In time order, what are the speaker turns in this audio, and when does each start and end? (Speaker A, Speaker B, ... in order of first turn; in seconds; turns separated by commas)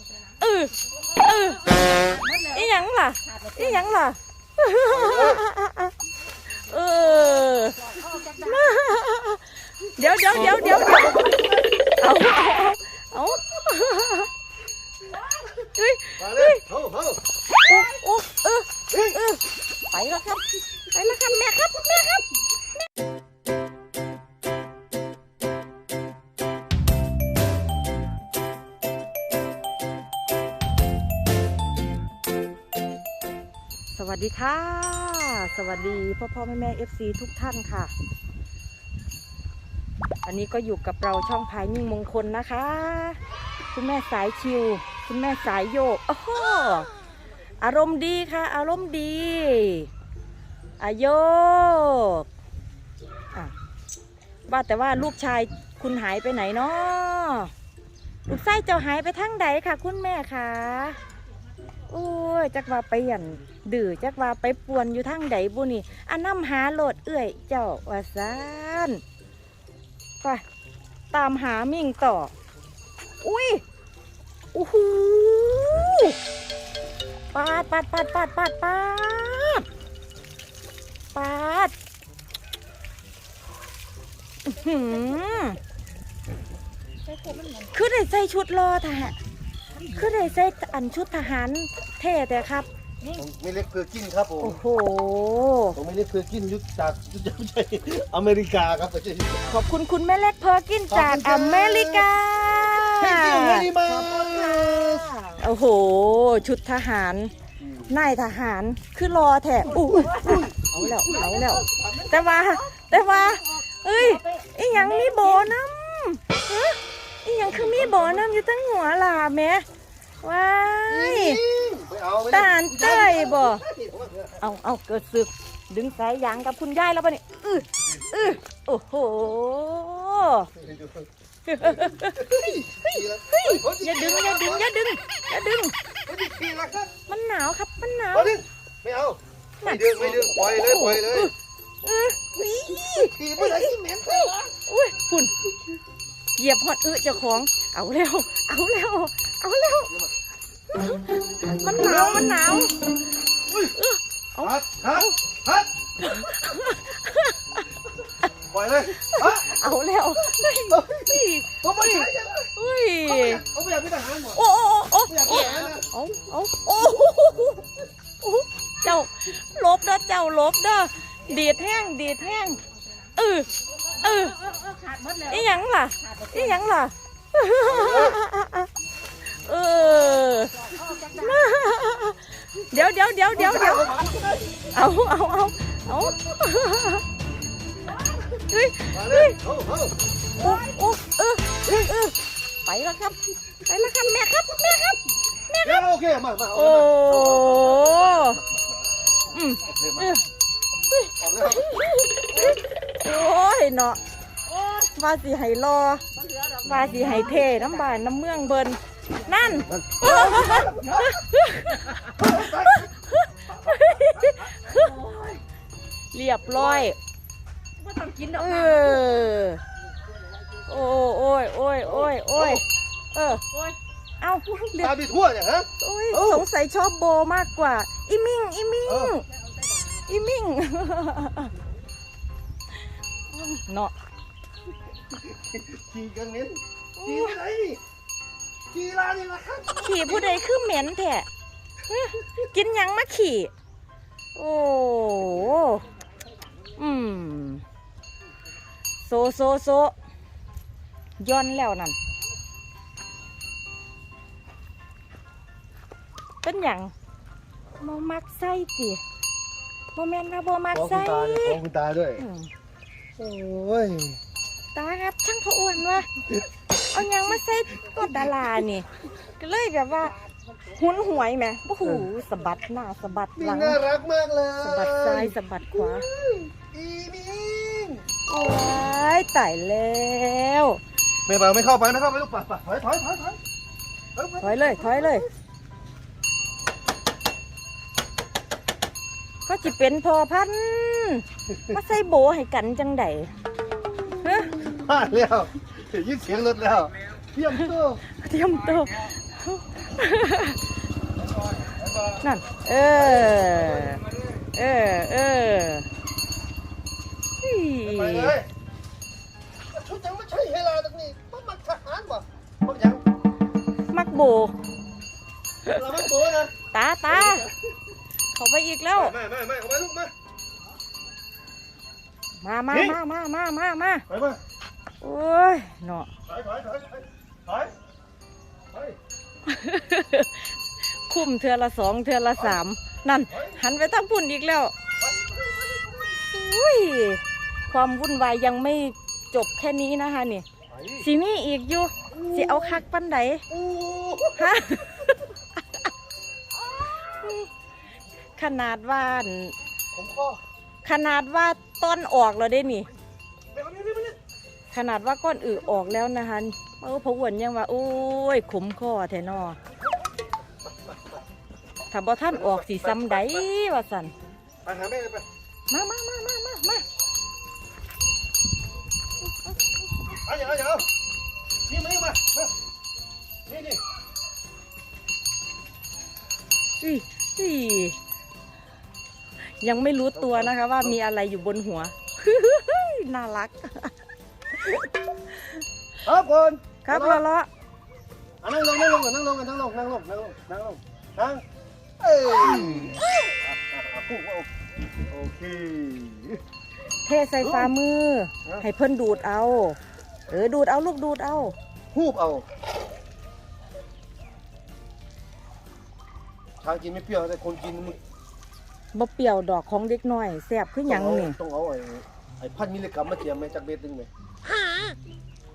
Speaker A: 0.4-5.9, Speaker B: 2.0-2.6, Speaker B: 3.3-3.8, Speaker C: 4.9-5.4, Speaker A: 6.5-11.4, Speaker B: 7.9-8.6, Speaker C: 10.3-11.8, Speaker A: 12.0-14.3, Speaker A: 15.6-16.6, Speaker C: 16.2-17.2, Speaker A: 17.6-22.3, Speaker C: 18.9-19.2, Speaker A: 33.9-37.9, Speaker A: 40.2-43.2, Speaker A: 43.7-46.9, Speaker A: 47.6-49.9, Speaker A: 50.8-52.3, Speaker A: 54.5-57.5, Speaker A: 58.3-61.0, Speaker A: 61.9-69.0, Speaker A: 71.1-72.3, Speaker A: 73.2-73.6, Speaker A: 74.5-76.2, Speaker A: 77.3-79.7, Speaker A: 81.1-81.7, Speaker A: 84.4-85.6, Speaker B: 87.1-87.7, Speaker A: 87.7-89.2, Speaker A: 89.8-92.7, Speaker C: 93.1-94.6, Speaker A: 94.4-95.8, Speaker C: 95.8-99.5, Speaker A: 99.4-104.8, Speaker C: 100.9-102.1, Speaker C: 103.0-105.2, Speaker A: 105.3-107.3, Speaker C: 107.6-107.9, Speaker A: 107.9-119.7, Speaker C: 109.7-112.0, Speaker B: 111.1-112.6, Speaker B: 114.0-115.5, Speaker C: 117.4-118.3, Speaker A: 120.2-121.4, Speaker C: 120.9-124.4, Speaker A: 122.3-123.6, Speaker A: 124.4-130.5, Speaker C: 130.6-131.1, Speaker A: 131.5-135.8, Speaker C: 131.6-134.7, Speaker C: 136.1-136.9, Speaker A: 137.1-138.4, Speaker C: 138.1-141.3, Speaker A: 139.6-145.3, Speaker C: 142.5-144.5, Speaker A: 146.4-149.9, Speaker A: 150.7-152.8, Speaker C: 151.6-152.7, Speaker C: 153.5-153.8, Speaker A: 153.7-155.2, Speaker C: 154.4-156.3, Speaker A: 156.0-157.7, Speaker C: 158.5-162.5, Speaker A: 158.9-163.4, Speaker C: 163.1-164.4, Speaker A: 164.3-172.6, Speaker C: 165.0-165.9, Speaker A: 173.2-174.5, Speaker B: 174.1-175.5, Speaker A: 175.3-178.7, Speaker B: 176.0-176.6, Speaker C: 177.6-178.2, Speaker A: 179.3-184.0, Speaker B: 180.7-181.4, Speaker C: 183.3-184.7, Speaker A: 184.7-187.1, Speaker A: 188.5-189.4, Speaker C: 188.9-190.0, Speaker A: 190.4-195.9, Speaker C: 191.7-191.9, Speaker C: 195.6-198.9, Speaker A: 196.5-198.4, Speaker A: 199.3-200.2, Speaker C: 199.7-200.2, Speaker A: 200.9-204.0, Speaker C: 201.2-201.8, Speaker A: 204.6-206.0, Speaker B: 206.1-207.7, Speaker A: 206.6-215.1, Speaker C: 209.6-211.2, Speaker C: 212.1-212.9, Speaker B: 214.7-215.4, Speaker A: 216.1-217.0, Speaker C: 216.5-216.9, Speaker B: 217.8-219.0, Speaker A: 218.3-219.6, Speaker A: 220.7-223.4, Speaker C: 221.8-222.6, Speaker A: 224.2-225.0, Speaker C: 224.8-226.5, Speaker A: 225.8-229.3, Speaker C: 228.9-229.2, Speaker A: 230.1-231.5, Speaker A: 233.3-233.9, Speaker C: 235.1-237.8, Speaker A: 237.0-237.4, Speaker C: 238.7-240.5, Speaker A: 239.8-241.3, Speaker A: 241.9-243.5, Speaker A: 244.3-245.9, Speaker A: 246.8-247.7, Speaker A: 249.0-249.9, Speaker A: 251.2-252.0, Speaker A: 256.4-256.9, Speaker A: 257.8-259.0, Speaker A: 259.9-261.6, Speaker C: 260.7-262.2, Speaker A: 262.2-262.5, Speaker C: 263.2-264.2, Speaker A: 264.7-266.1, Speaker A: 266.8-270.2, Speaker C: 267.9-268.5, Speaker A: 270.7-273.8, Speaker C: 273.4-278.1, Speaker A: 274.6-276.1, Speaker A: 278.3-280.8, Speaker C: 281.3-283.4, Speaker C: 284.1-285.3, Speaker A: 284.4-285.3, Speaker A: 289.5-293.3, Speaker C: 291.5-291.8, Speaker A: 294.2-294.5, Speaker C: 294.5-298.0, Speaker A: 297.5-300.6, Speaker C: 301.2-302.2, Speaker A: 302.2-305.9, Speaker C: 302.9-303.7, Speaker A: 307.4-308.4, Speaker C: 307.8-308.5, Speaker C: 309.7-313.0, Speaker A: 313.9-314.6, Speaker C: 315.6-316.5, Speaker A: 316.7-317.5, Speaker C: 317.1-317.8, Speaker A: 318.3-319.2, Speaker C: 318.9-320.1, Speaker A: 322.4-324.1, Speaker C: 322.7-323.0, Speaker C: 324.1-324.4, Speaker A: 325.0-326.1, Speaker C: 326.3-327.7, Speaker C: 328.7-329.0, Speaker A: 329.5-330.5, Speaker A: 331.1-334.7, Speaker C: 333.3-333.6, Speaker C: 335.0-336.2, Speaker A: 336.2-340.5, Speaker C: 340.7-341.1, Speaker A: 341.0-343.4, Speaker C: 342.1-342.8, Speaker C: 343.5-345.1, Speaker A: 344.4-345.2, Speaker A: 347.1-347.5, Speaker A: 348.4-349.6, Speaker C: 349.9-350.4, Speaker A: 350.8-352.9, Speaker C: 353.5-354.2, Speaker A: 354.7-359.6, Speaker C: 355.5-355.9, Speaker A: 361.9-364.1, Speaker C: 362.3-363.4, Speaker C: 364.6-365.3, Speaker A: 365.7-366.9, Speaker C: 370.2-370.9, Speaker C: 371.7-372.5, Speaker C: 373.5-373.8, Speaker A: 376.8-378.0, Speaker A: 379.5-383.9, Speaker C: 380.1-381.0, Speaker A: 384.5-385.6, Speaker C: 386.0-387.2, Speaker A: 386.9-387.5, Speaker C: 388.4-391.4, Speaker C: 392.0-394.5, Speaker C: 395.1-396.4, Speaker A: 397.1-401.6, Speaker C: 397.4-397.7, Speaker C: 401.9-402.5, Speaker C: 406.6-408.0, Speaker A: 408.9-411.4, Speaker C: 410.9-414.1